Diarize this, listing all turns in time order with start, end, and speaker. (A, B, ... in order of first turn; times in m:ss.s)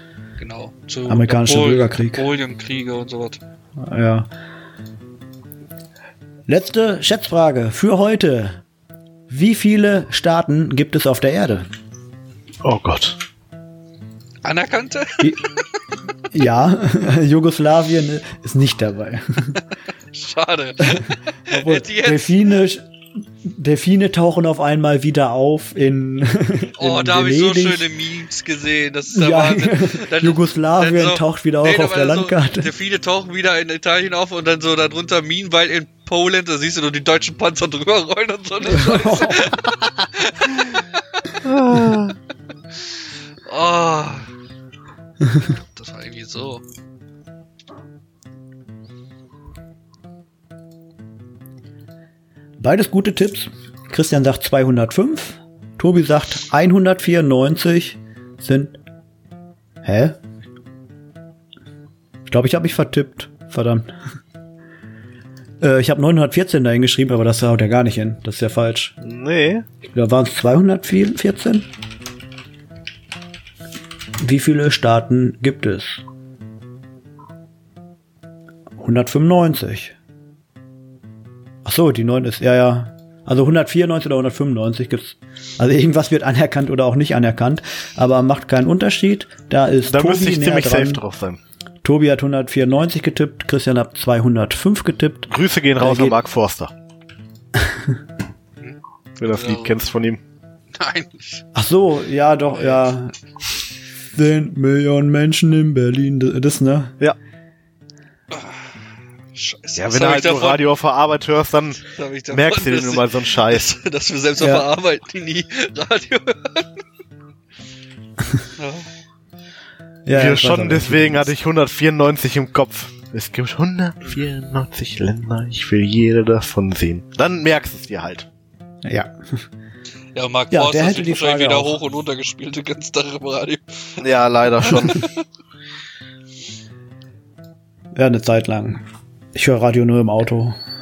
0:00.4-0:03.4 A
0:01.1-0:02.2 B
0:03.8-0:04.3 B
0:06.5-0:08.6 B
0:09.3-0:11.6 B
0:12.6-0:13.2 C
0:14.4-0:15.3 A
0:16.3-0:19.6 B
0:20.1-0:22.4 A
0:20.8-0:22.9 B
0:23.4-0:27.8 B
0:26.8-0:40.8 A
0:29.1-0:32.7 B
0:38.7-0:39.5 B
0:41.4-0:42.2 C
0:43.4-0:44.3 A
0:45.4-0:46.6 A
0:52.6-0:58.7 B
0:59.8-1:00.2 B
1:02.3-1:03.9 B
1:05.6-1:08.9 B
1:09.0-1:09.6 C
1:09.9-1:11.6 B
1:14.2-1:16.0 B
1:18.8-1:19.9 B
1:21.6-1:31.0 B
1:29.8-1:31.4 C
1:31.8-1:36.2 B
1:35.3-1:36.7 C
1:39.2-1:40.2 C
1:39.3-1:39.7 A
1:40.7-1:41.4 A
1:41.5-1:43.1 B
1:44.1-1:46.9 B
1:48.3-1:48.8 A
1:49.3-1:50.7 A
1:49.8-1:53.7 C
1:51.9-1:56.7 A
1:54.4-1:54.6 B
1:58.6-1:58.9 A
2:00.0-2:01.3 B
2:00.1-2:08.3 C
2:08.8-2:09.1 B
2:10.1-2:14.0 A
2:10.5-2:11.8 B
2:14.0-2:15.0 C
2:14.6-2:15.1 A
2:17.9-2:18.8 B
2:19.3-2:20.6 B